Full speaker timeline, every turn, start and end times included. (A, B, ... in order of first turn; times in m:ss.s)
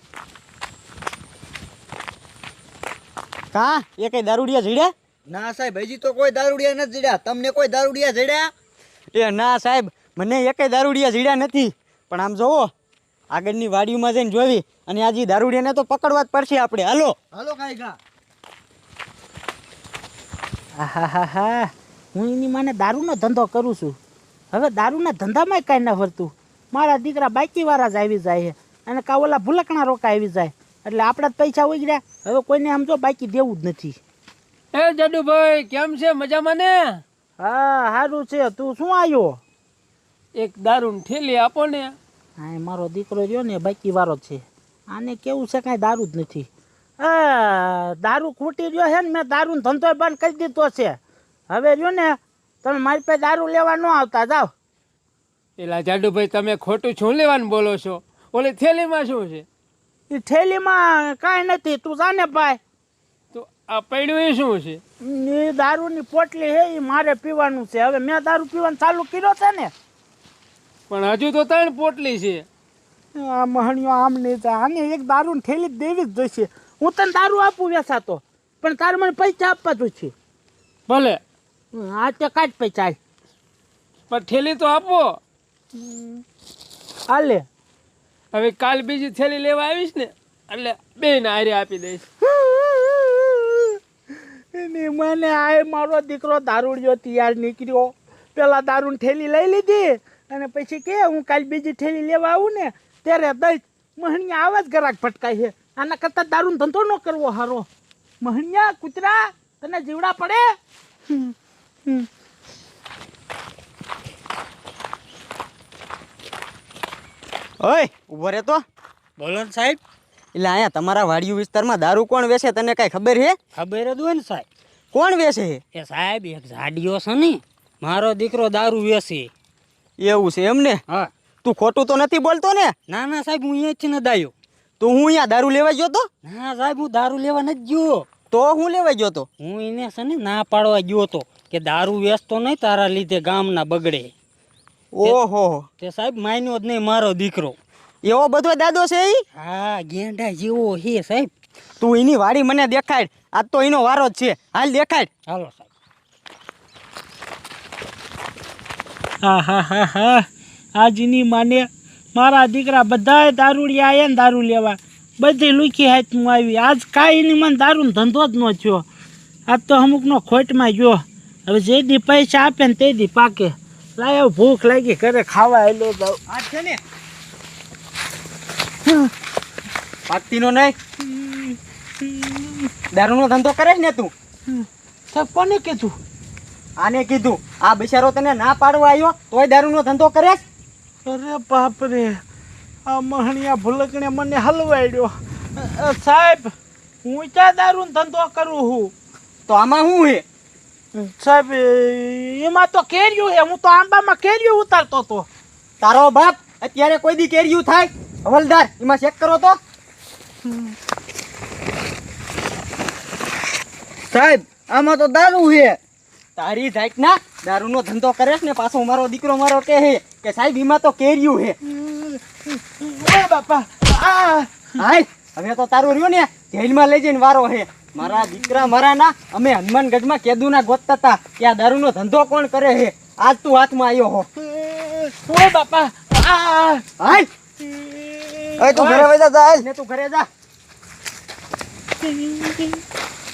0:03.5-0:04.9 A
0:05.3-0:08.5 B
0:09.1-0:12.7 A
0:13.3-0:17.2 A
0:17.3-0:18.0 B
0:20.8-0:24.0 C
0:24.5-0:34.0 C
0:34.7-0:37.0 D
0:37.4-0:39.4 C
0:40.4-0:42.0 D
0:42.4-0:46.5 C
0:47.0-0:51.0 C
0:51.5-0:54.5 C
0:55.6-0:59.4 D
1:00.1-1:02.6 C
1:03.3-1:04.8 D
1:05.0-1:09.7 C
1:10.9-1:12.5 D
1:13.1-1:20.1 C
1:20.9-1:21.2 D
1:21.7-1:23.0 C
1:24.1-1:25.2 D
1:25.7-1:26.2 C
1:27.1-1:27.4 C
1:28.3-1:32.0 D
1:32.2-1:33.8 C
1:34.5-1:47.7 C
1:48.2-1:50.4 C
1:57.6-1:58.6 A
1:59.2-1:59.8 E
2:00.3-2:03.4 A
2:03.5-2:04.5 E
2:04.9-2:05.6 A
2:05.7-2:09.3 E
2:10.0-2:10.8 A
2:11.4-2:12.7 A
2:12.9-2:14.3 E
2:14.8-2:16.0 A
2:16.2-2:18.1 E
2:18.3-2:19.3 A
2:19.4-2:24.1 E
2:25.0-2:25.7 A
2:25.8-2:27.6 E
2:28.0-2:29.2 A
2:29.3-2:31.3 E
2:31.8-2:35.1 A
2:35.3-2:35.6 E
2:39.2-2:48.8 C
2:49.5-2:56.2 C
2:56.3-2:56.8 A
3:00.1-3:00.7 A
3:01.0-3:02.7 C
3:02.9-3:04.1 A
3:04.5-3:05.9 C
3:06.8-3:10.4 A
3:11.0-3:12.2 C
3:12.9-3:16.5 C
3:17.0-3:18.9 C
3:19.5-3:20.2 A
3:21.0-3:25.2 C
3:25.8-3:29.6 A
3:34.1-3:35.8 B
3:36.4-3:41.5 A
3:41.7-3:44.6 C
3:44.8-3:54.2 A
3:54.5-3:56.8 C
3:57.0-3:57.2 A
3:57.6-3:59.1 C
3:58.6-3:59.6 B
3:59.5-4:00.3 A
4:02.0-4:02.8 C